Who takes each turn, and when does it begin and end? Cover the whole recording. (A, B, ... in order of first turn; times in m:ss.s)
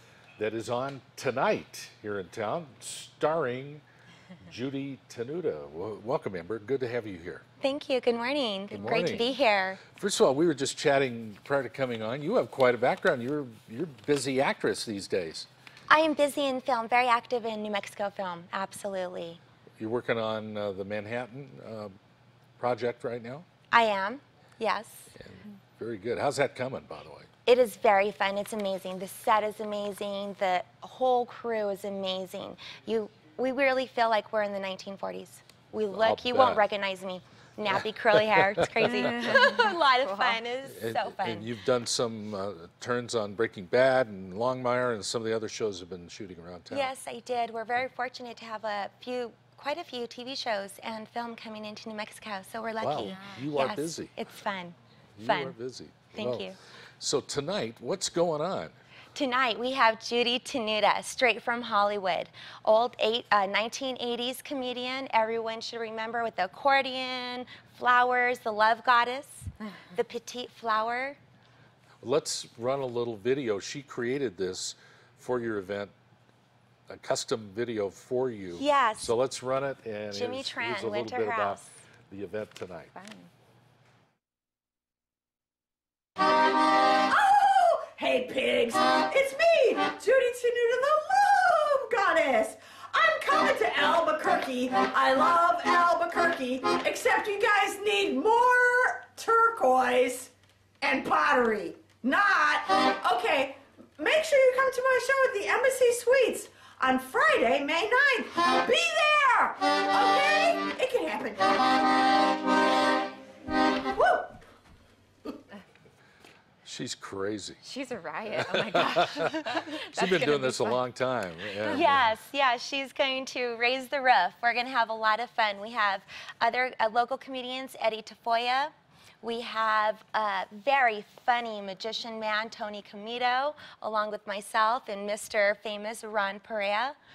0:00.4-0:03.8 A
0:04.4-0:07.4 A
0:07.6-0:09.8 B
0:08.7-0:09.3 A
0:09.9-0:15.5 A
0:15.9-0:19.4 B
0:19.8-0:22.0 A
0:22.6-0:23.4 A
0:23.7-0:25.1 B
0:25.1-0:27.3 A
0:27.4-0:41.5 B
0:35.9-0:36.6 A
0:38.2-0:38.9 A
0:38.9-0:40.4 C
0:40.6-0:46.9 A
0:46.7-0:55.6 B
0:52.8-0:54.1 A
0:53.0-0:53.5 C
0:55.2-0:58.7 A
0:56.1-0:56.6 B
0:59.1-1:11.2 B
1:12.0-1:15.9 A
1:16.9-1:22.9 A
1:18.6-1:19.1 B
1:20.1-1:21.7 B
1:22.9-1:23.3 C
1:27.0-1:51.8 D
1:53.8-1:54.4 D
1:56.6-1:57.6 A
1:57.6-2:00.8 C
1:58.4-2:02.2 A
2:01.6-2:01.9 C
2:01.7-2:17.0 B